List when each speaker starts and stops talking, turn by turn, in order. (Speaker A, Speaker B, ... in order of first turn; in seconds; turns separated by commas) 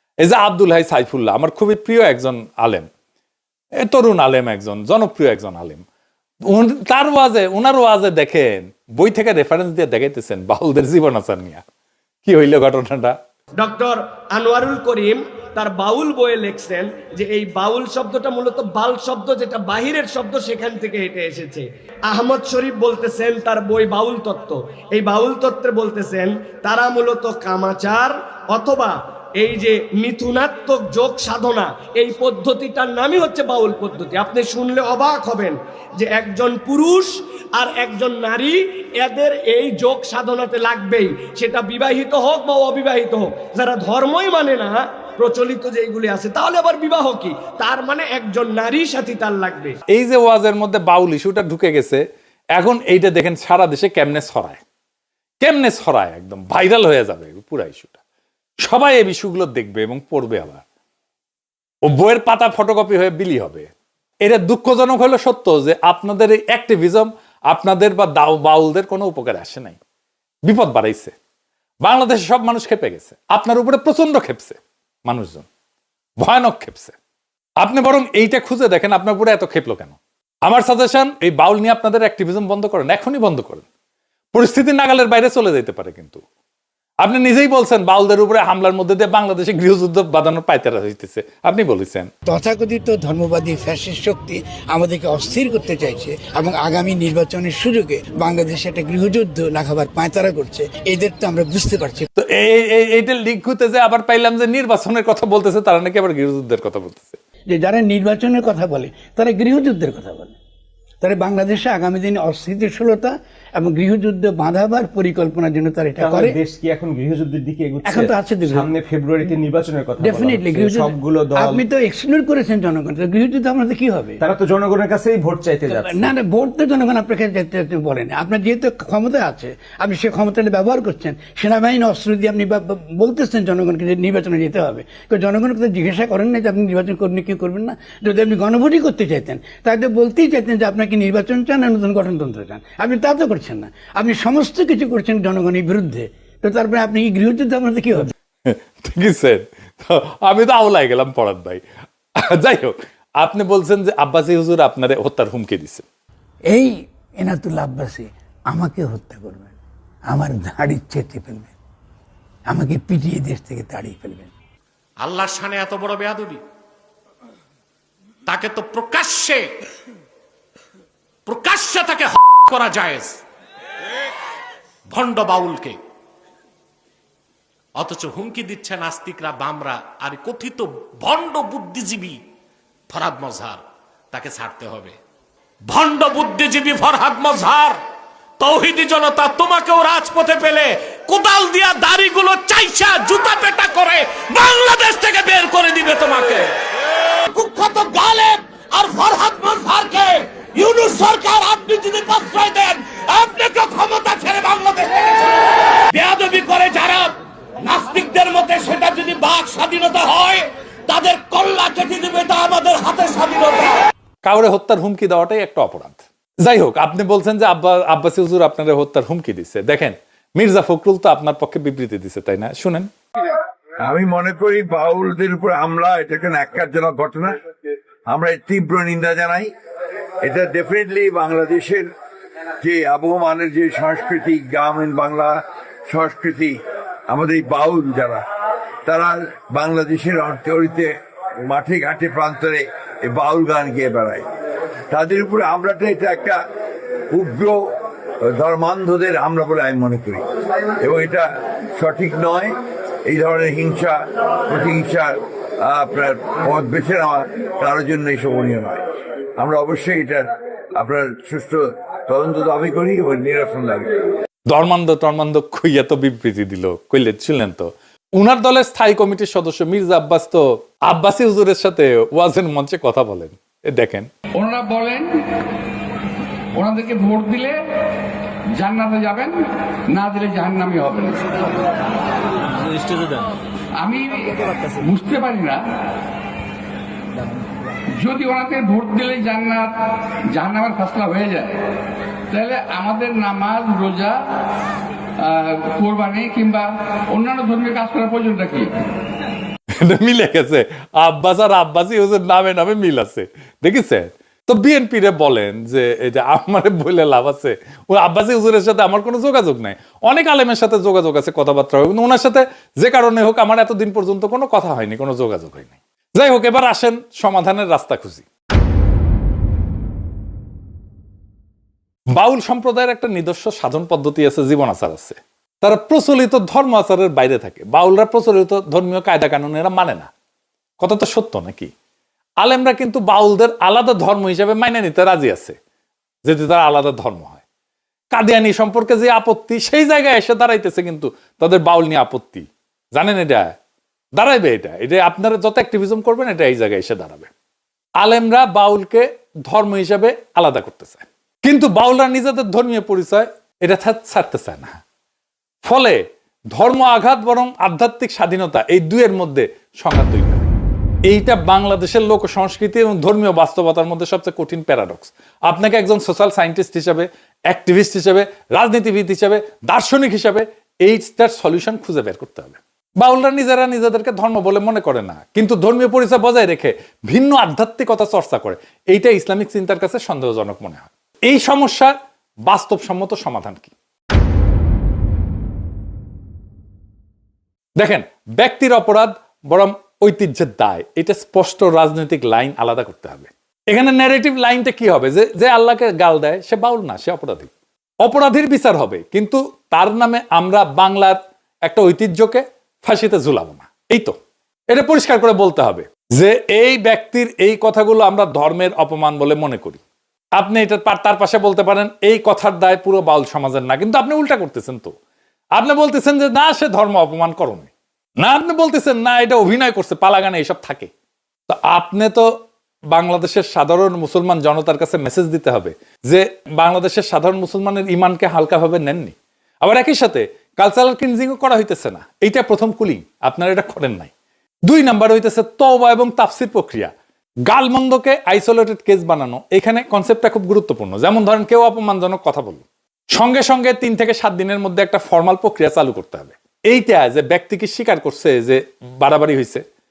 Speaker A: 0.2-2.9, Speaker A: 3.8-5.8, Speaker A: 6.5-11.6, Speaker A: 12.2-13.1, Speaker B: 13.6-49.8, Speaker A: 49.9-52.0, Speaker A: 52.5-54.6, Speaker A: 55.4-58.0, Speaker A: 58.6-60.6, Speaker A: 61.9-63.7, Speaker A: 64.2-69.8, Speaker A: 70.5-71.1, Speaker A: 71.8-75.5, Speaker A: 76.2-76.9, Speaker A: 77.6-83.7, Speaker A: 84.3-86.2, Speaker A: 87.0-92.1, Speaker C: 92.2-102.1, Speaker A: 102.2-107.2, Speaker C: 107.5-110.4, Speaker C: 111.0-116.4, Speaker D: 116.0-121.6, Speaker C: 117.9-118.7, Speaker C: 120.0-124.2, Speaker D: 124.2-126.1, Speaker C: 125.7-148.1, Speaker A: 148.4-151.6, Speaker A: 152.2-155.8, Speaker C: 156.5-159.5, Speaker C: 160.1-161.5, Speaker C: 162.5-164.3, Speaker E: 165.0-166.4, Speaker E: 168.3-169.5, Speaker E: 171.3-173.2, Speaker E: 174.9-175.8, Speaker E: 177.8-182.2, Speaker E: 182.9-183.6, Speaker E: 184.1-184.9, Speaker E: 185.7-187.8, Speaker E: 188.4-196.5, Speaker E: 197.2-213.8, Speaker A: 214.2-222.9, Speaker F: 223.8-227.3, Speaker F: 228.1-229.5, Speaker F: 230.2-231.9, Speaker F: 232.6-238.2, Speaker F: 238.8-244.2, Speaker F: 244.9-246.4, Speaker F: 247.1-247.7, Speaker F: 248.2-250.2, Speaker F: 250.8-252.6, Speaker F: 253.1-258.8, Speaker F: 259.4-264.0, Speaker A: 264.5-274.1, Speaker G: 274.4-275.2, Speaker G: 276.5-277.6, Speaker G: 278.6-279.4, Speaker G: 279.9-281.6, Speaker G: 283.8-285.6, Speaker G: 288.0-289.7, Speaker G: 290.3-291.6, Speaker G: 292.3-294.2, Speaker G: 295.2-298.7, Speaker A: 299.8-318.2, Speaker A: 322.1-330.1, Speaker A: 330.8-331.7, Speaker A: 332.4-335.6, Speaker A: 336.2-337.4, Speaker A: 338.1-343.5, Speaker A: 344.1-347.3, Speaker A: 348.0-354.8, Speaker A: 355.6-360.5, Speaker A: 361.1-381.9, Speaker A: 382.4-383.7, Speaker A: 387.8-397.5, Speaker A: 398.0-404.2, Speaker A: 404.7-409.8, Speaker A: 410.4-414.9, Speaker A: 415.6-417.7, Speaker A: 418.2-420.9, Speaker A: 421.5-422.3, Speaker A: 422.9-434.1, Speaker A: 434.7-436.9, Speaker A: 437.4-449.6